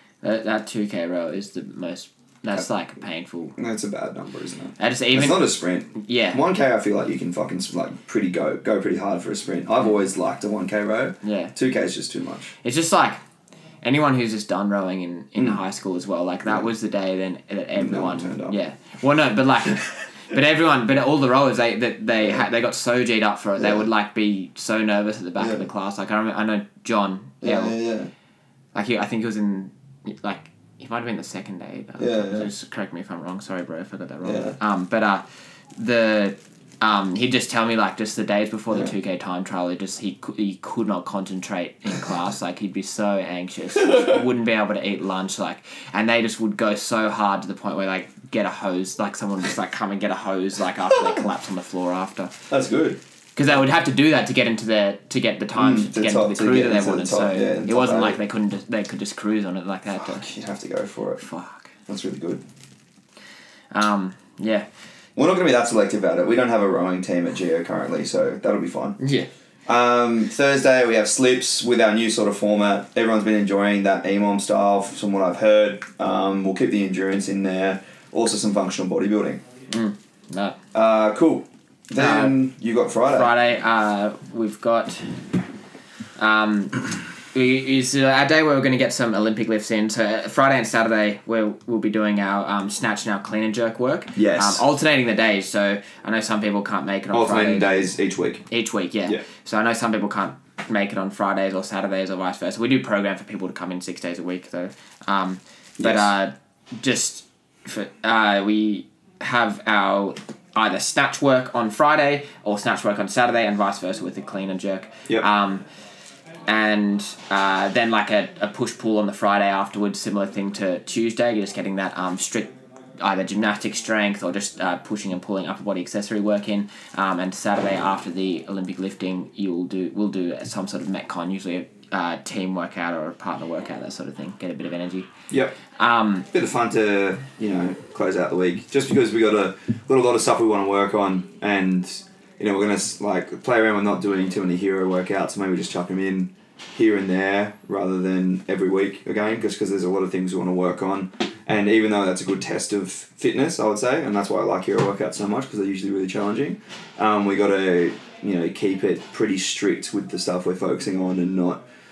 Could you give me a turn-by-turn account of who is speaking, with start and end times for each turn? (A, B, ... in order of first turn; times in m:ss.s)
0:00.2-0:03.6 A
0:03.6-0:12.5 B
0:04.8-0:06.4 A
0:11.2-0:11.5 A
0:12.6-0:13.2 A
0:13.8-0:27.8 A
0:17.7-0:18.6 B
0:23.6-0:23.8 B
0:25.4-0:25.6 B
0:27.4-0:28.1 B
0:28.7-0:35.2 A
0:32.0-0:32.5 B
0:34.2-0:34.6 B
0:35.8-0:52.3 A
0:43.9-0:44.2 B
0:52.5-0:53.0 B
0:53.4-1:00.3 A
0:55.6-0:58.2 B
1:00.0-1:01.2 B
1:01.2-1:01.7 A
1:01.9-1:02.4 B
1:03.7-1:04.6 A
1:05.2-1:09.0 B
1:09.0-1:09.3 A
1:09.7-1:19.4 B
1:19.7-1:20.6 A
1:20.7-1:23.3 B
1:22.0-1:22.4 A
1:23.1-1:25.2 A
1:26.2-1:37.9 A
1:34.2-1:34.6 B
1:37.1-1:38.4 B
1:38.5-1:55.6 A
1:45.8-1:46.1 B
1:56.5-2:15.1 A
2:15.3-2:15.6 B
2:15.8-2:16.3 A
2:16.3-2:41.6 B